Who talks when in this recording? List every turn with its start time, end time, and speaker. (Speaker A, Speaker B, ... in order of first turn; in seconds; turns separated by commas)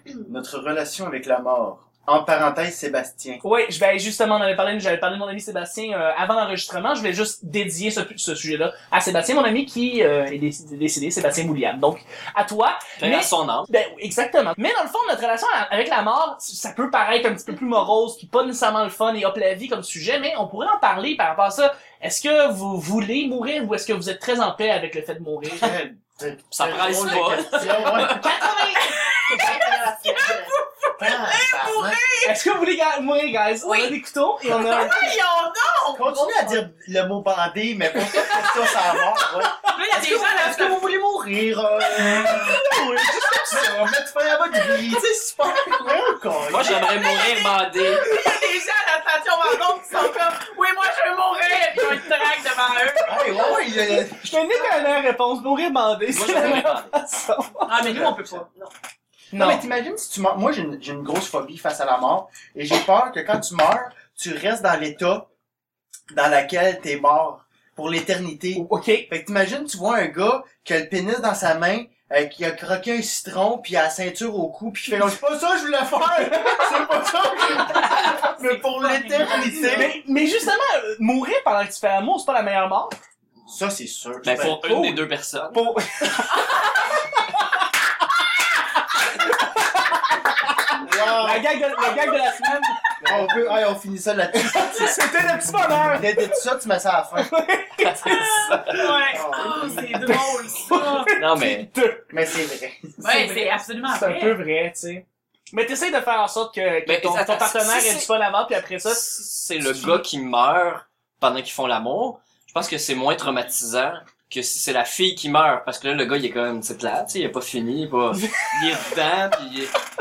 Speaker A: 0.3-3.4, Speaker B: 3.4-25.7, Speaker C: 13.0-13.7, Speaker A: 25.5-28.3, Speaker C: 26.5-28.3, Speaker B: 28.1-29.0, Speaker D: 28.8-29.6, Speaker E: 29.3-30.6, Speaker D: 30.2-32.4, Speaker A: 31.0-32.0, Speaker B: 32.2-35.1, Speaker D: 33.6-34.0, Speaker D: 34.5-36.0, Speaker A: 35.9-42.6, Speaker E: 36.0-36.6, Speaker D: 39.7-40.9, Speaker B: 42.0-43.7, Speaker D: 42.3-42.5, Speaker A: 43.5-46.8, Speaker C: 46.5-48.1, Speaker D: 46.9-53.6, Speaker B: 51.8-52.3, Speaker B: 53.0-58.1, Speaker A: 53.1-54.5, Speaker C: 56.1-57.0, Speaker D: 57.7-58.5, Speaker B: 59.3-59.6, Speaker A: 59.3-65.3, Speaker A: 66.1-80.0, Speaker B: 68.5-69.1, Speaker D: 77.7-79.7, Speaker B: 79.6-83.0, Speaker A: 83.5-84.6, Speaker C: 84.2-86.1, Speaker B: 84.5-93.3, Speaker A: 90.8-91.5, Speaker A: 93.0-95.0, Speaker B: 94.3-96.4, Speaker A: 95.9-97.3, Speaker B: 97.2-98.9, Speaker C: 97.8-98.8, Speaker D: 98.0-101.1, Speaker A: 99.1-100.0, Speaker B: 99.7-102.1, Speaker C: 101.2-101.7, Speaker A: 102.1-103.0, Speaker B: 103.0-109.0, Speaker D: 103.0-104.4, Speaker C: 106.9-108.1, Speaker C: 108.8-119.7, Speaker B: 118.2-118.8